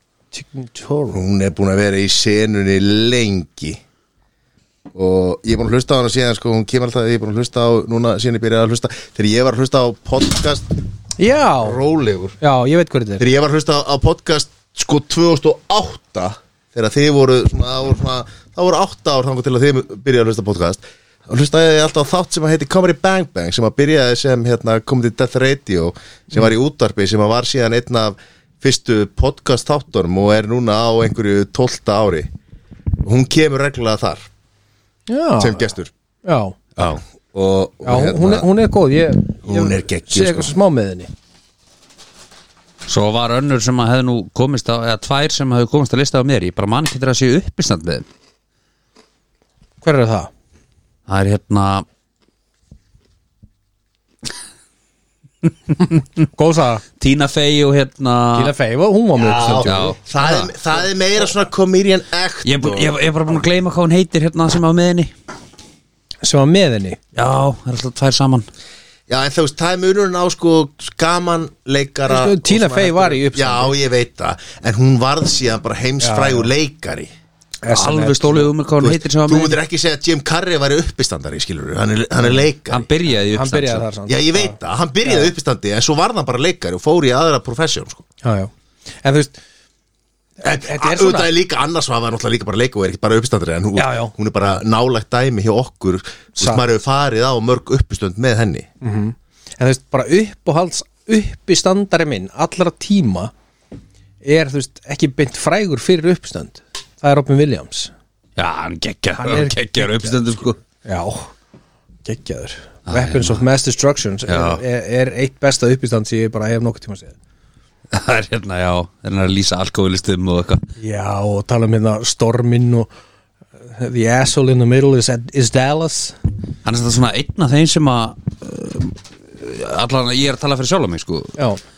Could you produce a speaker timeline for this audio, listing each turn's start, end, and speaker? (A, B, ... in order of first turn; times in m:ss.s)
0:00.3-0:01.2 A
0:01.1-0:03.8 B
0:04.9-0:10.7 B
0:11.2-0:11.8 A
0:11.6-0:12.4 B
0:12.4-0:13.2 A
0:13.2-0:32.3 B
0:33.0-0:34.3 B
0:35.1-0:35.7 A
0:35.4-0:35.9 B
0:36.2-0:36.6 A
0:36.8-0:38.5 B
0:37.8-0:41.1 A
0:39.4-0:40.5 B
0:42.9-0:48.0 C
0:49.8-0:50.3 A
0:51.1-0:51.9 C
0:56.3-0:56.8 A
0:57.0-0:58.5 C
0:58.3-1:00.5 A
0:59.2-1:03.0 B
0:59.6-1:00.0 C
1:02.4-1:05.1 C
1:06.2-1:07.0 A
1:07.1-1:08.5 C
1:09.1-1:17.1 B
1:12.1-1:13.8 A
1:16.0-1:16.5 A
1:17.6-1:18.5 A
1:17.7-1:19.6 C
1:18.8-1:22.8 B
1:22.7-1:23.8 C
1:23.3-1:25.3 A
1:24.1-1:28.0 B
1:28.2-1:29.4 A
1:30.4-1:38.7 B
1:30.5-1:31.3 A
1:33.8-1:34.1 A
1:38.8-1:43.3 A
1:44.2-1:47.9 A
1:48.4-1:50.6 C
1:49.2-1:50.2 A
1:50.8-1:51.3 A
1:52.0-1:57.1 A
1:52.9-1:53.4 C
1:54.3-1:54.6 C
1:57.9-2:00.6 C
2:00.8-2:02.9 A
2:03.7-2:06.2 A
2:06.6-2:11.4 C